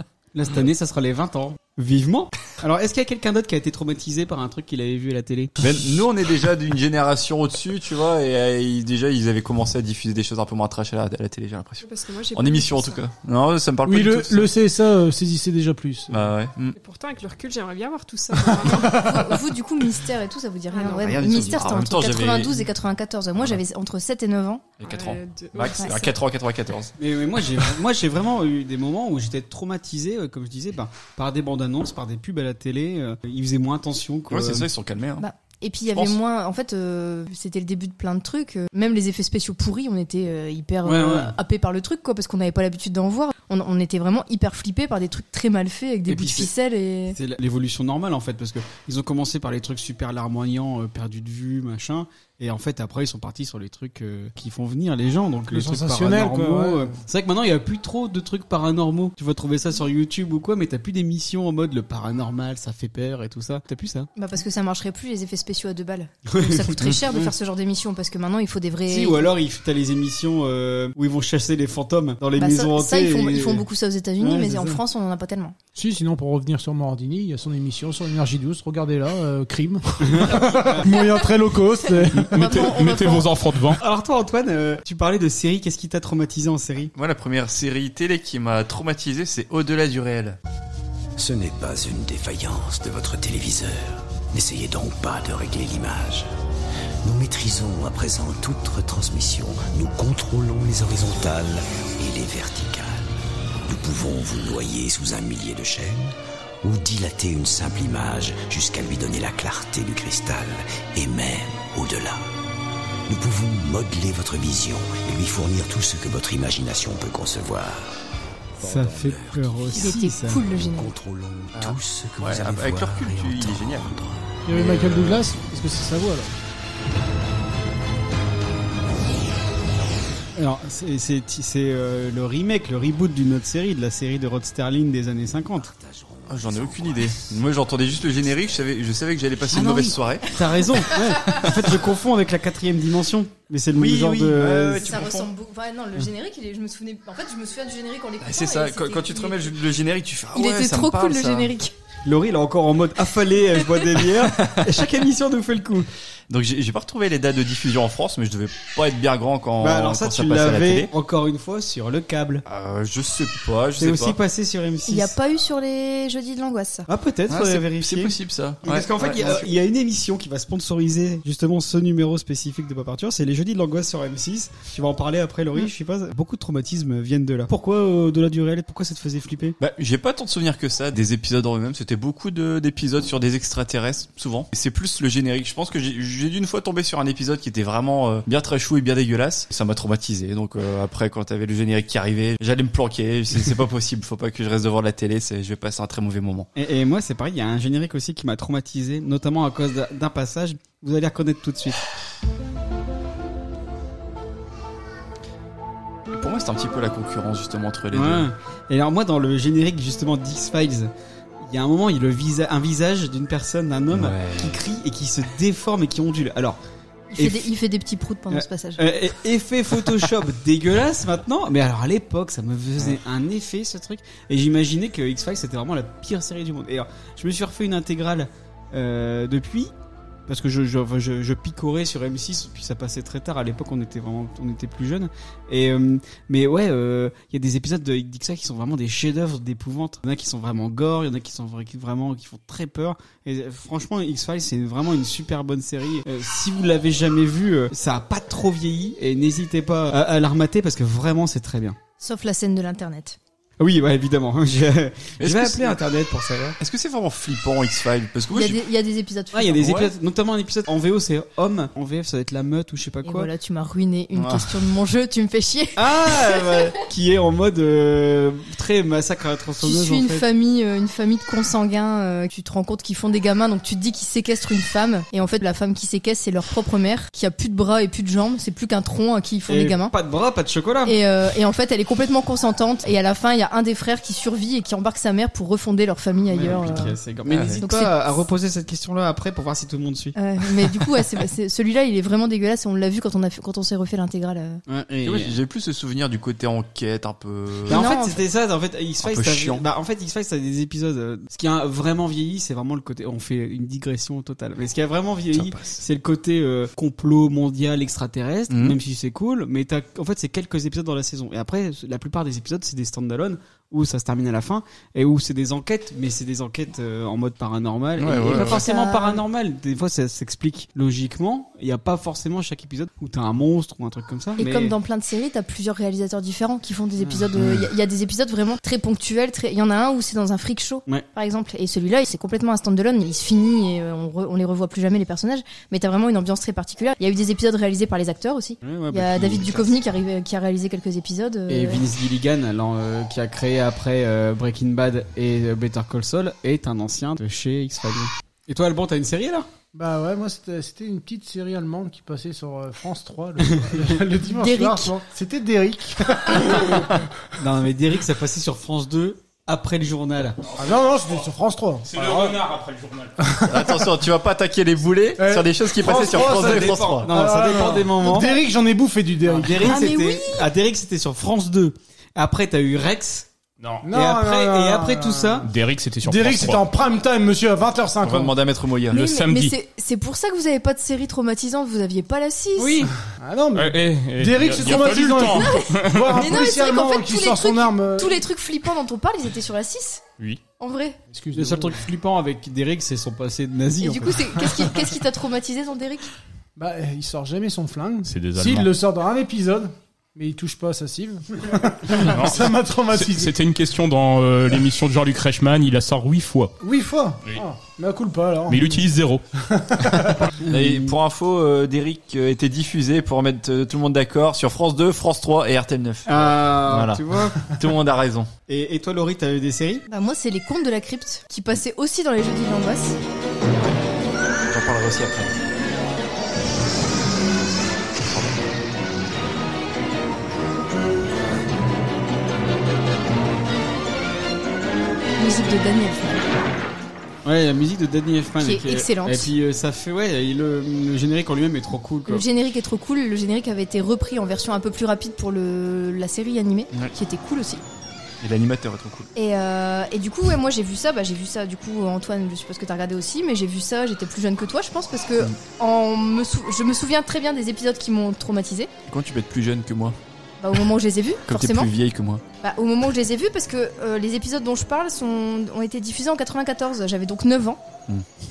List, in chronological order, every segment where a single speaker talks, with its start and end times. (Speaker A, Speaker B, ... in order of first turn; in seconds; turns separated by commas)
Speaker A: 0.3-5.6, Speaker B: 5.6-14.5, Speaker C: 11.8-13.0, Speaker D: 13.8-16.1, Speaker B: 16.1-16.7, Speaker C: 16.7-19.1, Speaker D: 18.6-19.2, Speaker E: 18.7-24.7, Speaker C: 20.7-21.5, Speaker B: 20.9-22.7, Speaker C: 24.8-26.1, Speaker B: 24.8-26.9, Speaker A: 27.0-34.7, Speaker B: 34.3-35.2, Speaker E: 35.2-47.2, Speaker A: 40.8-41.3, Speaker A: 46.1-46.5, Speaker A: 47.1-64.1, Speaker D: 55.5-56.9, Speaker E: 64.2-69.3, Speaker A: 66.3-67.3, Speaker A: 68.9-73.6, Speaker E: 72.4-75.5, Speaker A: 74.2-74.8, Speaker D: 75.8-82.6, Speaker A: 80.0-80.8, Speaker E: 81.8-83.3, Speaker F: 82.3-83.8, Speaker A: 83.8-86.9, Speaker B: 86.9-90.4, Speaker G: 91.2-96.3, Speaker G: 97.0-103.1, Speaker G: 103.7-112.2, Speaker G: 113.1-117.9, Speaker G: 118.6-119.8, Speaker A: 118.6-120.4, Speaker E: 119.7-120.9, Speaker G: 120.5-124.2, Speaker B: 121.6-123.9, Speaker D: 124.5-126.3, Speaker B: 124.5-125.2, Speaker A: 130.4-135.7, Speaker G: 135.6-137.4, Speaker B: 136.3-140.4, Speaker A: 139.5-144.9, Speaker B: 141.3-141.8, Speaker B: 143.7-145.3, Speaker E: 144.8-149.6, Speaker B: 148.2-151.5, Speaker E: 150.3-151.7, Speaker A: 152.1-155.9, Speaker B: 154.0-154.7, Speaker B: 156.3-160.9, Speaker A: 159.6-162.4, Speaker B: 162.4-164.2, Speaker A: 163.8-165.1, Speaker E: 164.9-166.9, Speaker A: 166.9-179.6, Speaker B: 167.3-169.5, Speaker B: 179.6-196.5, Speaker A: 196.6-201.8, Speaker B: 206.1-208.3, Speaker A: 207.9-210.9, Speaker A: 211.4-216.6, Speaker B: 213.9-214.6, Speaker E: 217.1-218.8, Speaker A: 217.2-217.5, Speaker A: 218.3-229.7, Speaker A: 230.3-251.8, Speaker E: 252.0-253.2, Speaker A: 253.6-256.6, Speaker B: 255.2-255.8, Speaker B: 256.6-258.6, Speaker E: 258.3-259.8, Speaker A: 259.3-263.3, Speaker B: 259.6-259.9, Speaker E: 263.0-266.7, Speaker B: 264.1-264.5, Speaker A: 265.8-270.2, Speaker E: 269.6-279.9, Speaker A: 279.5-281.0, Speaker E: 280.8-287.0, Speaker A: 286.3-290.1, Speaker B: 287.3-287.6, Speaker E: 287.6-288.2, Speaker E: 290.1-294.6, Speaker A: 294.7-295.4, Speaker B: 295.0-297.9, Speaker A: 297.7-324.7, Speaker E: 297.7-298.2, Speaker B: 299.0-299.6, Speaker B: 305.3-305.8, Speaker B: 308.5-308.8, Speaker B: 318.0-318.6, Speaker E: 318.3-319.2, Speaker E: 324.4-341.8, Speaker A: 327.0-327.2, Speaker A: 338.6-339.6, Speaker A: 341.5-349.5, Speaker D: 349.7-357.0, Speaker A: 353.4-353.9, Speaker E: 354.3-354.9, Speaker A: 357.4-360.4, Speaker D: 360.6-362.4, Speaker F: 361.8-363.1, Speaker D: 363.2-363.9, Speaker B: 363.5-367.1, Speaker D: 365.2-369.8, Speaker A: 365.8-368.4, Speaker A: 369.2-373.3, Speaker E: 369.6-370.4, Speaker F: 373.6-373.8, Speaker D: 373.8-375.4, Speaker A: 373.9-375.5, Speaker F: 375.4-376.7, Speaker D: 376.0-378.3, Speaker B: 378.0-379.0, Speaker E: 378.9-382.8, Speaker F: 378.9-379.5, Speaker C: 382.6-382.9, Speaker D: 383.2-388.2, Speaker F: 383.5-386.0, Speaker E: 385.2-390.0, Speaker E: 390.6-391.0, Speaker D: 391.1-391.8, Speaker A: 391.3-394.3, Speaker E: 393.8-396.1, Speaker D: 396.6-403.4, Speaker F: 398.1-398.7, Speaker F: 401.9-406.5, Speaker D: 406.6-408.9, Speaker F: 408.5-409.2, Speaker D: 409.5-410.2, Speaker A: 410.4-410.9, Speaker B: 410.5-418.3, Speaker A: 416.1-417.4, Speaker A: 418.5-419.8, Speaker E: 419.9-423.0, Speaker B: 423.5-423.7, Speaker B: 424.4-425.4, Speaker E: 435.2-436.2, Speaker A: 437.2-442.2, Speaker E: 438.4-439.3, Speaker E: 442.1-447.6, Speaker B: 448.2-449.1, Speaker E: 449.1-458.7, Speaker B: 458.9-459.9, Speaker E: 460.4-461.7, Speaker B: 461.3-462.2, Speaker E: 462.4-467.6